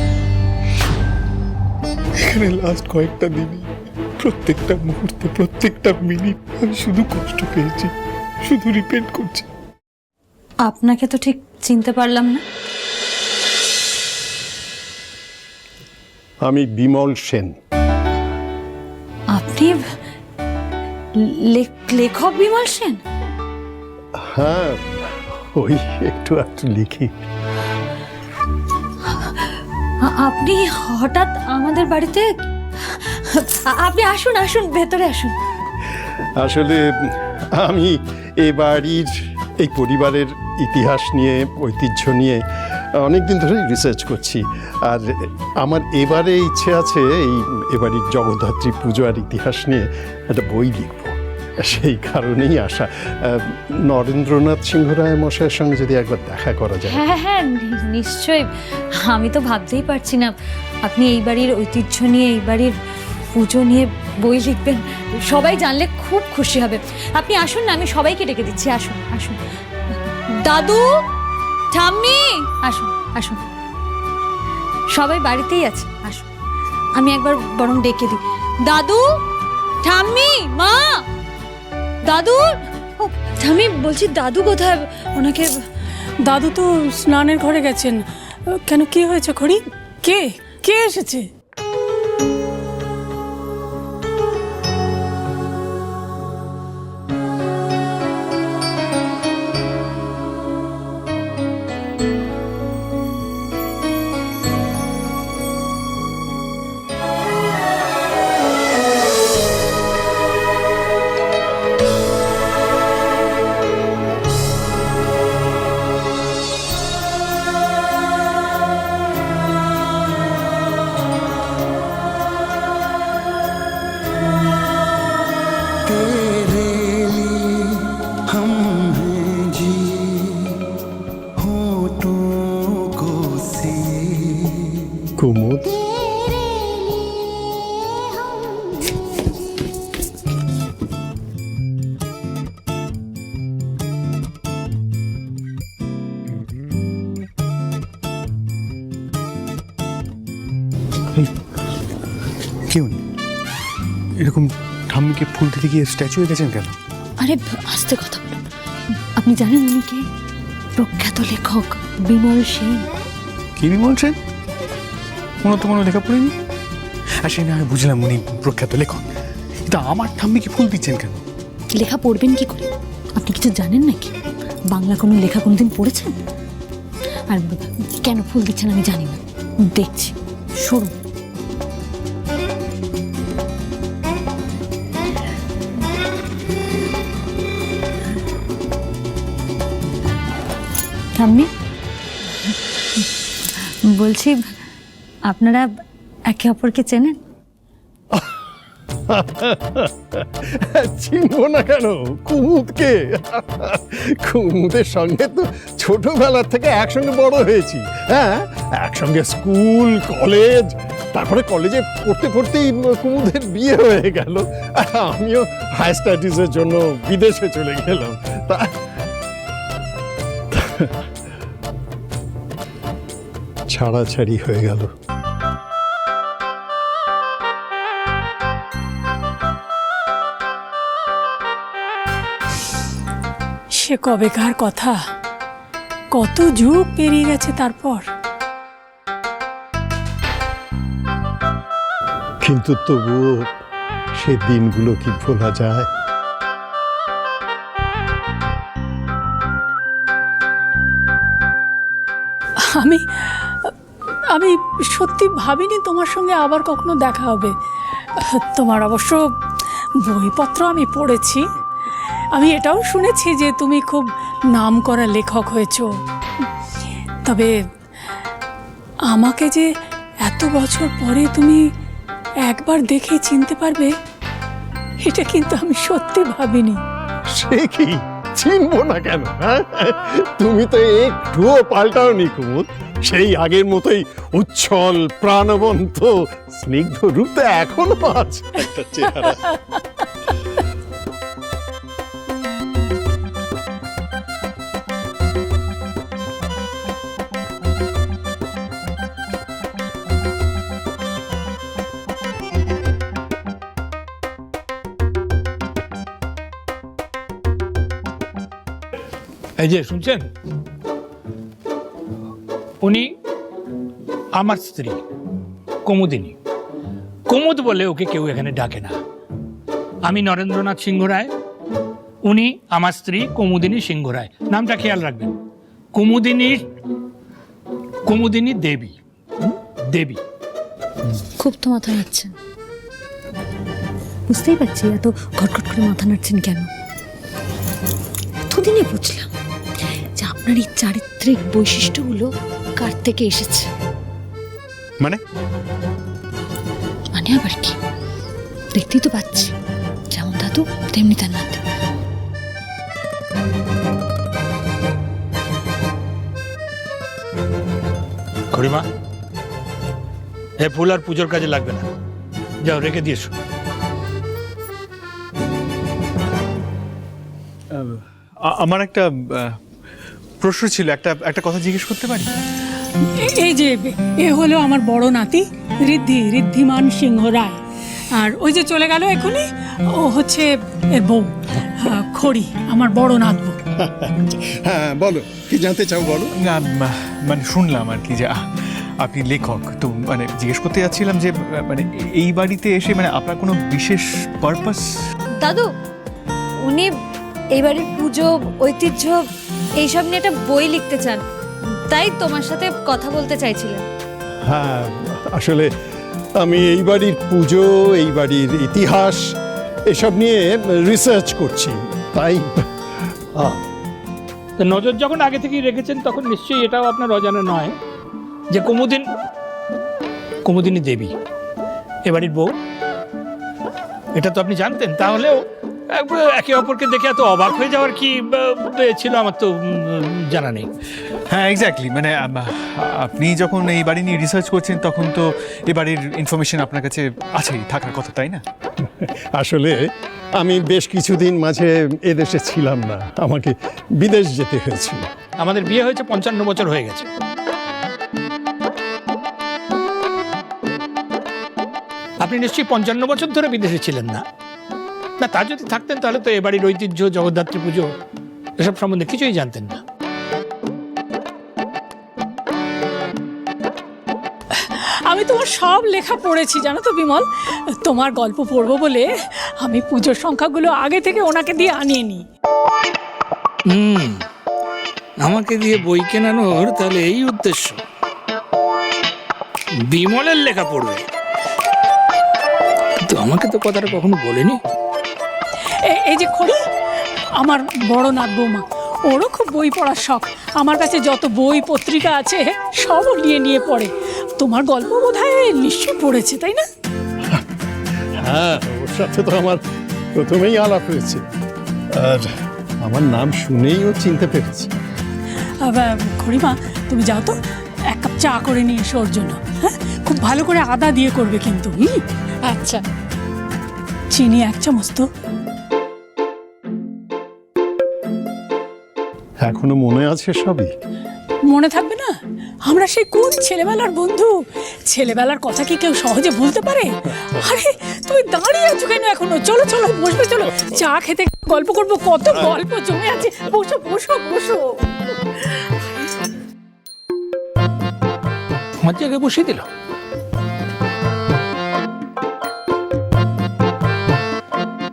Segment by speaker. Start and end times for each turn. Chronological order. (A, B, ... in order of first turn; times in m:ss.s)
0:02.2-0:03.6 A
0:04.2-0:07.9 A
0:08.5-0:09.4 A
0:10.6-0:12.4 B
0:16.4-0:17.5 C
0:19.3-0:19.8 B
0:21.2-0:23.0 B
0:24.2-0:27.1 C
0:30.1-0:32.3 B
0:33.3-0:35.3 B
0:36.4-0:42.4 C
0:43.0-0:57.0 C
0:56.9-1:00.3 B
1:00.9-1:02.8 B
1:03.4-1:09.4 B
1:10.4-1:10.9 B
1:11.7-1:13.4 B
1:15.0-1:16.2 B
1:17.0-1:19.0 B
1:19.8-1:21.0 B
1:22.1-1:22.4 B
1:23.0-1:25.5 B
1:26.2-1:31.3 D
2:15.2-2:15.8 C
2:32.7-2:33.0 A
2:34.2-2:36.8 A
2:37.2-2:38.4 B
2:39.2-2:40.0 B
2:40.8-2:42.9 B
2:43.6-2:44.2 A
2:45.4-2:46.3 A
2:47.2-2:49.1 A
2:49.7-2:51.2 A
2:51.8-2:54.1 B
2:54.7-2:56.1 B
2:57.3-2:59.2 B
2:59.7-3:00.9 B
3:11.2-3:11.5 B
3:14.0-3:14.4 B
3:15.3-3:15.7 B
3:16.3-3:17.2 B
3:19.1-3:38.8 C
3:40.5-3:41.0 C
3:43.7-3:44.9 C
3:53.8-3:55.0 D
3:56.1-3:58.0 D
4:02.4-4:03.5 C
4:04.2-4:05.9 C
4:12.6-4:13.7 D
4:14.3-4:17.6 D
4:18.2-4:19.3 D
4:20.0-4:21.5 D
4:22.3-4:25.9 D
4:27.3-4:27.6 D
4:29.1-4:29.7 D
4:30.2-4:31.7 D
4:32.4-4:34.0 D
4:35.0-4:36.8 D
4:37.3-4:49.5 C
5:09.6-5:10.3 E
5:12.8-5:13.2 E
5:14.4-5:15.0 E
5:15.8-5:16.4 E
5:17.3-5:19.0 E
5:20.0-5:21.3 E
5:22.2-5:25.3 E
5:26.0-5:26.6 E
5:28.1-5:29.0 E
5:29.9-5:30.2 E
5:31.4-5:32.4 B
5:34.3-5:36.7 B
5:38.5-5:39.3 B
5:40.2-5:43.7 B
5:47.1-5:47.7 B
5:48.7-5:49.5 B
5:50.1-5:51.6 B
5:58.5-5:58.8 E
6:00.6-6:01.9 E
6:02.6-6:03.3 E
6:07.7-6:09.6 A
6:10.4-6:12.3 A
6:13.1-6:17.6 D
6:18.2-6:23.6 D
6:23.8-6:26.3 C
6:26.4-6:28.4 A
6:29.0-6:34.8 A
6:35.4-6:35.7 B
6:36.7-6:36.9 B
6:37.6-6:39.3 B
6:39.8-6:41.2 B
6:41.9-6:43.8 B
6:44.4-6:45.7 C
6:46.4-6:49.3 C
6:49.9-6:52.7 C
6:54.6-6:57.8 E
6:58.5-6:59.1 E
7:00.4-7:01.1 E
7:02.1-7:02.5 E
7:04.2-7:10.7 E
7:11.3-7:18.4 A
7:19.0-7:19.8 C
7:20.4-7:25.1 C
7:25.4-7:27.1 E
7:32.2-7:34.2 E
7:35.2-7:37.9 E
7:38.6-7:39.8 E
7:44.5-7:52.3 D
7:53.7-7:54.2 E
7:55.2-7:57.8 E
7:59.9-8:01.0 E
8:03.0-8:04.6 E
8:05.7-8:06.6 D
8:07.4-8:16.7 D
8:18.2-8:19.6 C
8:20.2-8:21.2 C
8:21.9-8:22.3 C
8:22.8-8:24.7 C
8:25.6-8:27.4 D
8:27.9-8:32.8 D
8:34.1-8:35.1 D
8:39.4-8:40.7 C
8:41.5-8:42.1 D
8:42.6-8:55.0 D
8:58.8-8:59.6 E